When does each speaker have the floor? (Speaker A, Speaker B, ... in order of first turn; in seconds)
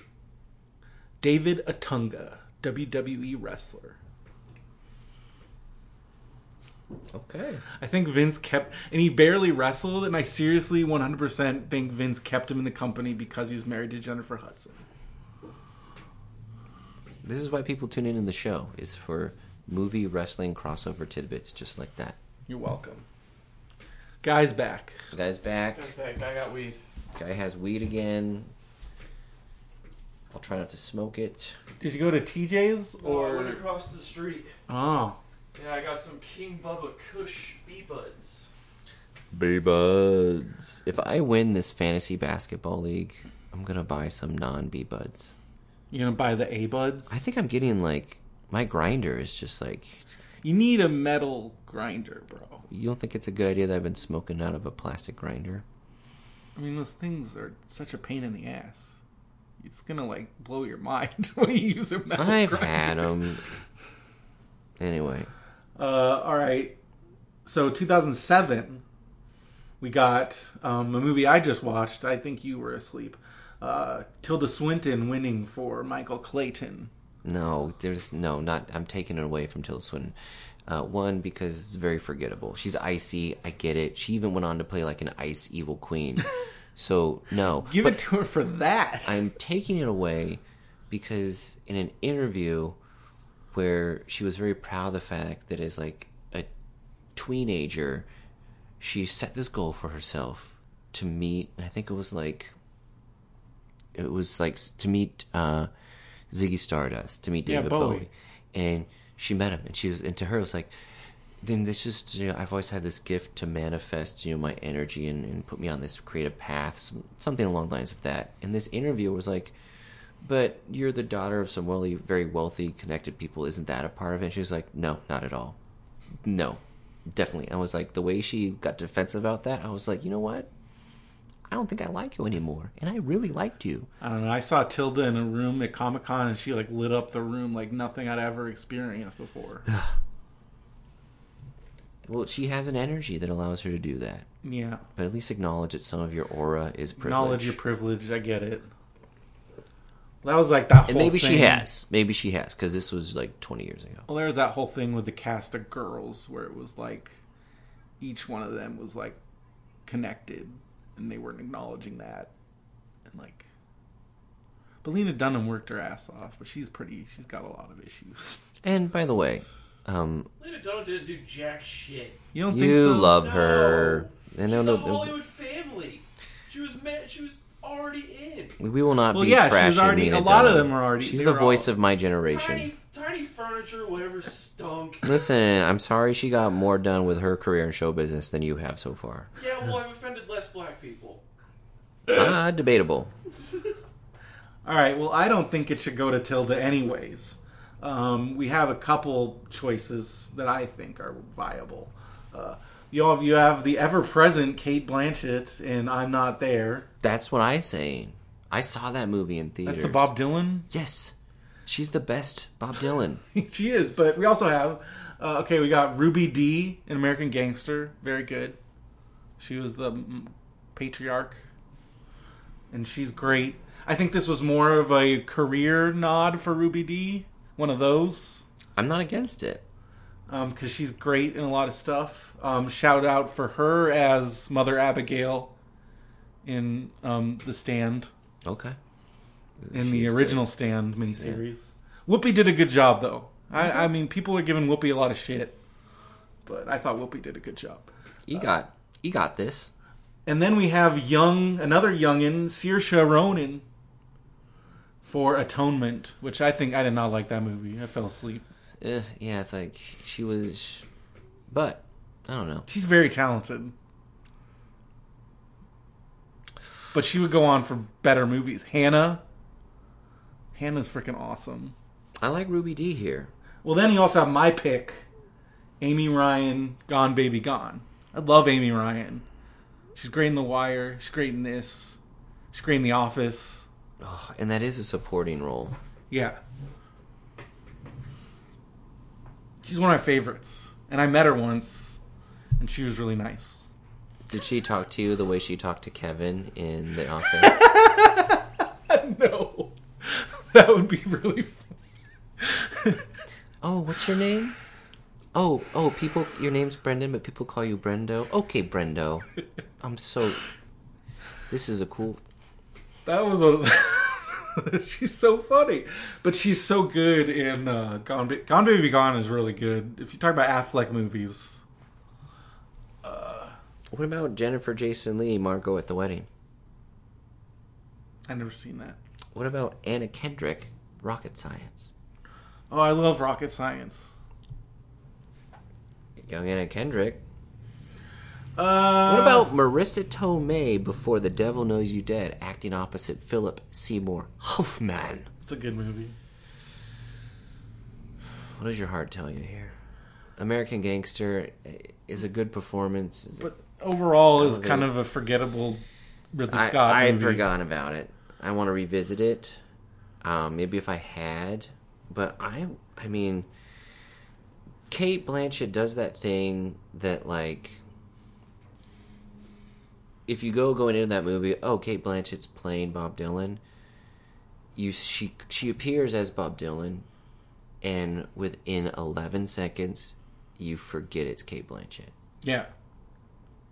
Speaker A: 1.2-4.0, 7.8-14.8, 22.5-23.0, 24.2-25.0, 31.8-33.6, 34.7-35.2, 45.9-47.2, 50.4-52.6, 56.5-59.0, 59.6-63.3, 65.8-66.8, 67.4-68.8, 69.8-76.9, 87.6-89.3, 107.5-108.1, 134.0-139.7, 144.4-144.8, 147.0-148.7, 150.2-151.7, 154.1-157.2, 158.0-159.2, 159.8-162.3, 163.1-163.5, 164.8-168.4, 172.3-173.2, 179.1-181.7, 194.6-206.9, 209.6-210.7, 213.3-218.6, 219.4-221.4, 222.7-228.4, 230.3-235.5, 236.4-238.1, 239.7-245.6, 246.4-248.5, 250.2-253.6, 255.0-258.4, 262.7-263.7, 266.9-269.2, 270.5-271.7, 273.6-275.1, 275.8-279.2, 279.9-282.0, 282.5-283.6, 286.1-286.4, 289.6-292.0, 292.6-293.7, 297.4-301.7, 302.4-303.0, 313.0-321.6, 323.0-323.6, 328.3-329.0, 332.7-334.1, 338.6-339.5, 345.4-346.1, 353.4-357.4, 382.4-382.7
Speaker B: 7.1-7.6, 17.2-22.2, 25.1-25.9, 27.1-28.5, 30.3-31.6, 39.3-45.3, 47.1-50.1, 52.7-55.6, 62.1-63.4, 64.8-65.3, 77.2-80.1, 80.7-88.0, 89.0-92.8, 93.5-96.5, 97.1-98.0, 98.8-102.5, 103.9-105.7, 106.3-110.7, 111.4-119.5, 120.2-125.6, 126.2-130.5, 131.5-133.9, 142.0-144.2, 144.9-147.6, 150.9-154.1, 168.6-170.3, 172.5-175.2, 178.6-182.7, 185.0-189.3, 192.1-193.1, 207.0-210.1, 210.7-211.1, 211.7-213.2, 228.8-229.6, 238.4-238.8, 239.6-240.5, 241.2-241.4, 243.6-243.9, 248.3-249.7, 258.8-260.9, 261.5-262.6, 272.2-273.3, 284.0-285.8, 294.3-297.6, 303.6-304.5, 305.3-309.2, 309.8-310.4, 311.5-312.2, 323.9-326.3, 329.3-331.9, 336.3-337.2, 339.0-345.3, 348.5-349.8, 350.4-353.5, 354.3-354.9, 356.5-359.6, 360.2-363.5, 364.9-367.8, 370.3-373.6, 374.7-377.1, 377.8-382.1
Speaker C: 25.7-26.8, 33.0-34.5, 35.5-38.5, 170.4-172.2, 173.1-178.6, 182.3-185.2, 189.3-191.2